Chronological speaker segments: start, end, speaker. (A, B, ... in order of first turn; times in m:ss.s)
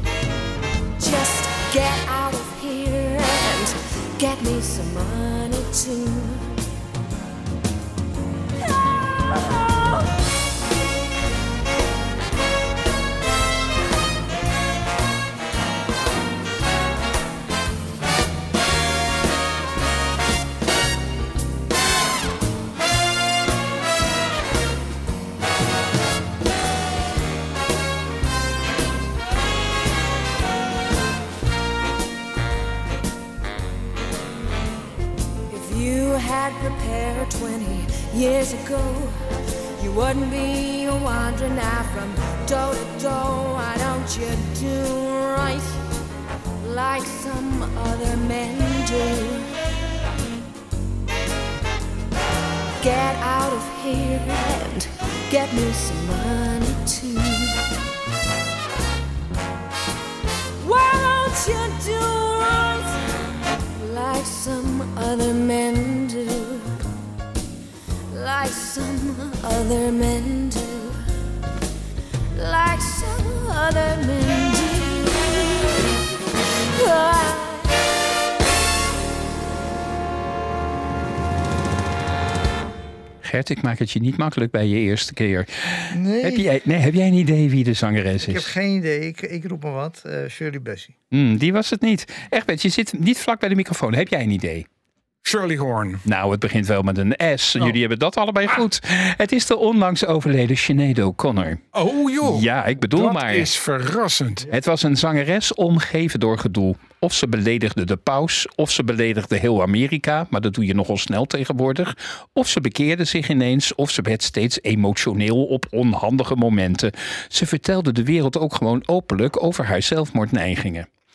0:01.0-0:06.5 A
0:09.3-0:10.1 A
0:35.5-0:39.1 A
0:39.8-0:45.8 A
0:46.6-0:49.5 A
0:52.8-0:57.6 A
1:00.6-1:03.0 A
1:03.8-1:06.7 A
1:08.1-1:11.0 A
1:12.3-1:16.0 A
1:16.8-1:17.9 A
1:23.2-1:28.6 B
1:25.9-1:26.5 C
1:28.2-1:30.9 C
1:31.1-1:34.7 B
1:35.2-1:36.0 D
1:36.1-1:41.6 B
1:41.7-1:44.5 D
1:42.2-1:43.5 B
1:44.5-2:00.9 B